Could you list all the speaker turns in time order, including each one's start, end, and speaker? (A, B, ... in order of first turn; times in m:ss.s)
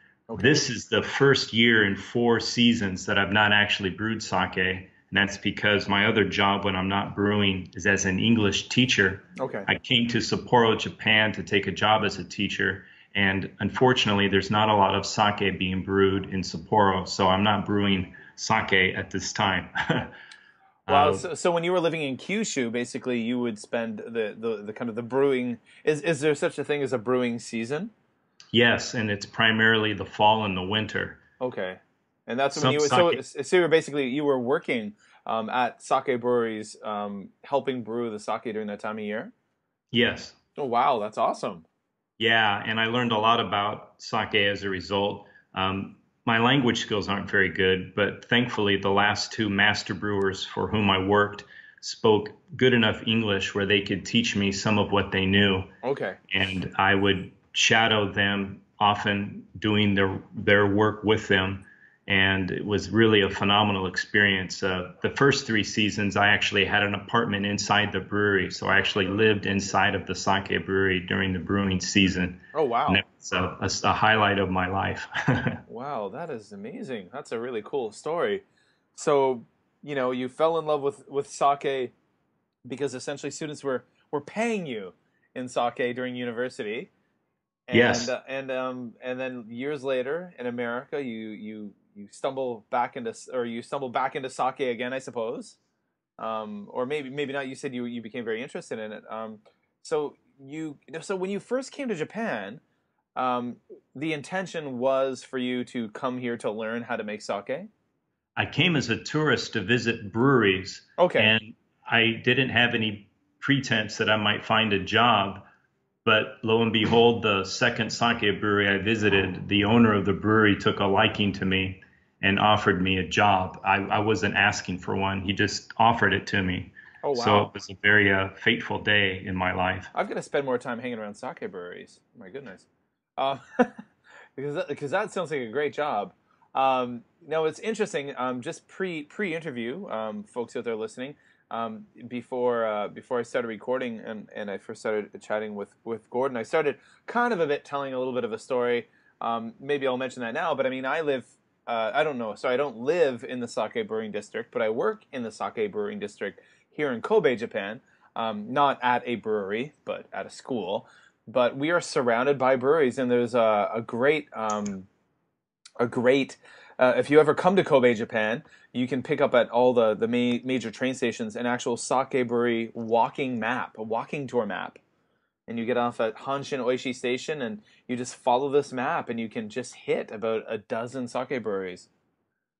0:00.3-0:00.6 A
0:00.4-0:20.1 B
0:09.4-0:09.7 A
0:20.9-0:21.2 B
0:20.9-0:27.9 A
0:28.5-0:31.2 B
0:31.4-0:39.3 A
0:32.5-0:33.2 B
0:39.9-0:40.4 B
0:40.6-0:41.6 A
0:42.2-0:55.7 B
0:55.8-0:56.2 A
0:56.3-1:15.6 B
1:12.5-1:13.0 A
1:15.7-1:18.4 A
1:18.9-1:21.9 A
1:22.6-1:26.9 A
1:27.7-1:35.6 A
1:27.7-1:28.1 B
1:36.2-1:42.6 A
1:43.2-1:47.7 A
1:48.4-1:55.4 B
1:51.0-1:51.3 A
1:56.0-2:09.9 B
2:07.0-2:07.5 A
2:09.9-2:12.6 A
2:13.2-2:13.8 A
2:14.4-2:44.9 A
2:45.8-2:54.8 A
2:55.5-3:01.9 A